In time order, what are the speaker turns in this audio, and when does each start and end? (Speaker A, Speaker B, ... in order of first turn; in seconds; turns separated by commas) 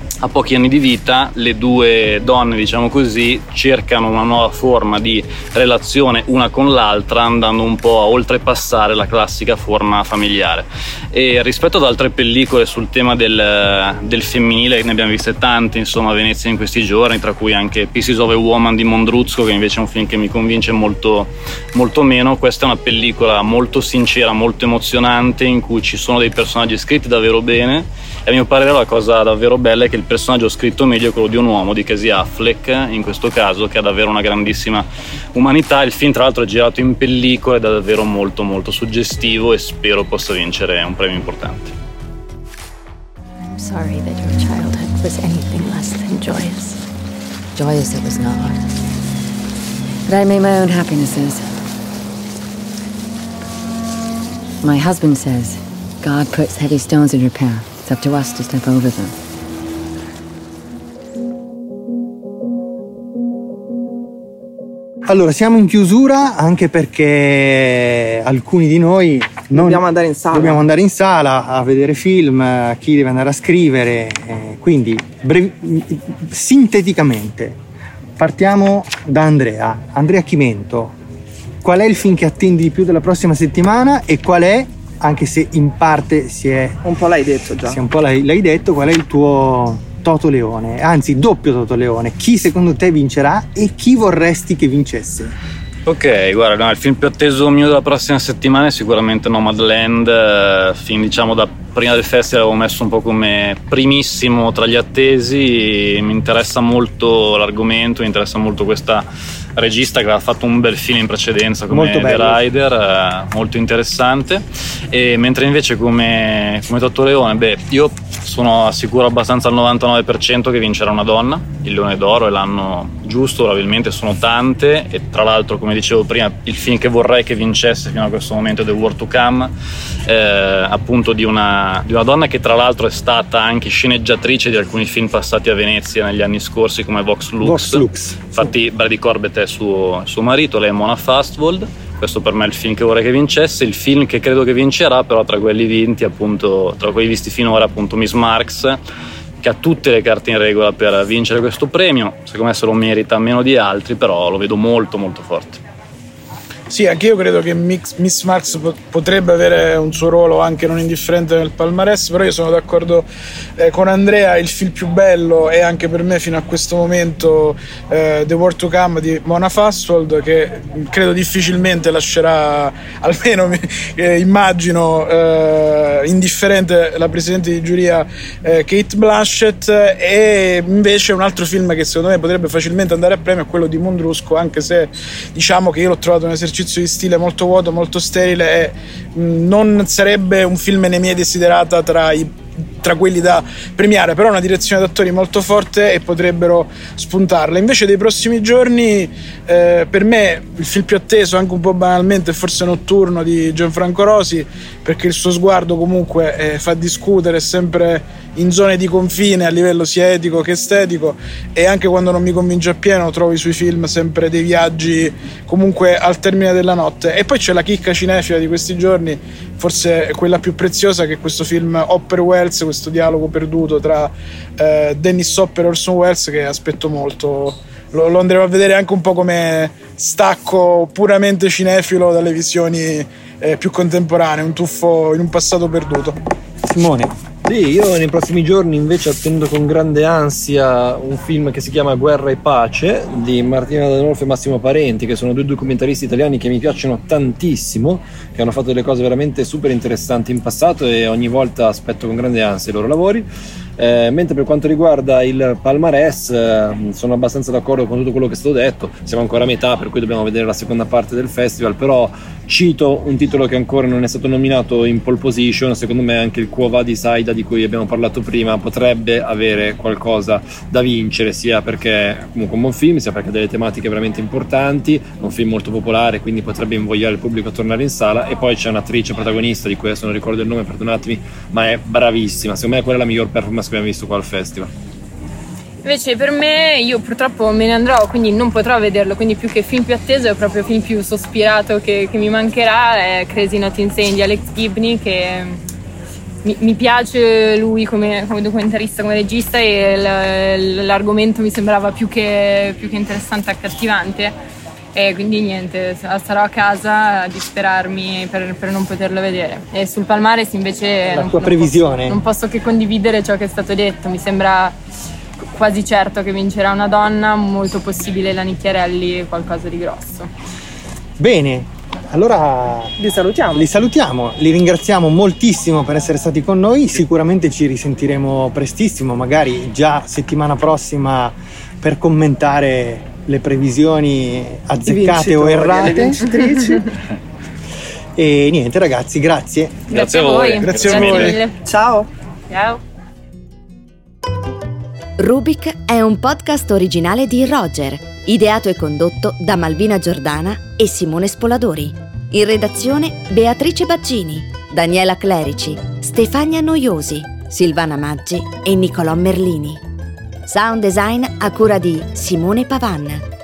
Speaker A: 0.2-41.7, Speaker B: 43.4-46.7, Speaker B: 47.5-48.6, Speaker B: 50.0-51.5, Speaker B: 54.6-59.1, Speaker C: 65.0-77.6, Speaker D: 69.5-70.6, Speaker C: 78.2-80.9, Speaker C: 81.6-86.8, Speaker D: 86.8-87.8, Speaker C: 87.7-95.3, Speaker A: 95.9-109.0, Speaker A: 109.6-129.5, Speaker C: 111.7-112.4, Speaker A: 130.1-148.8, Speaker C: 137.4-138.5, Speaker A: 149.4-155.6, Speaker E: 156.7-163.1, Speaker E: 163.6-236.2, Speaker C: 236.6-237.1, Speaker F: 237.4-253.3, Speaker F: 253.8-284.7, Speaker G: 285.8-295.6, Speaker G: 296.4-304.4, Speaker G: 304.9-314.8, Speaker C: 311.1-312.2, Speaker G: 315.4-320.3, Speaker C: 321.2-323.0, Speaker D: 323.0-323.7, Speaker C: 323.6-336.3, Speaker D: 334.9-336.9, Speaker C: 338.1-339.8, Speaker G: 339.9-341.6, Speaker A: 339.9-341.4, Speaker E: 340.6-341.4, Speaker D: 341.6-342.1, Speaker G: 342.5-342.8, Speaker H: 345.2-359.8, Speaker H: 360.5-363.2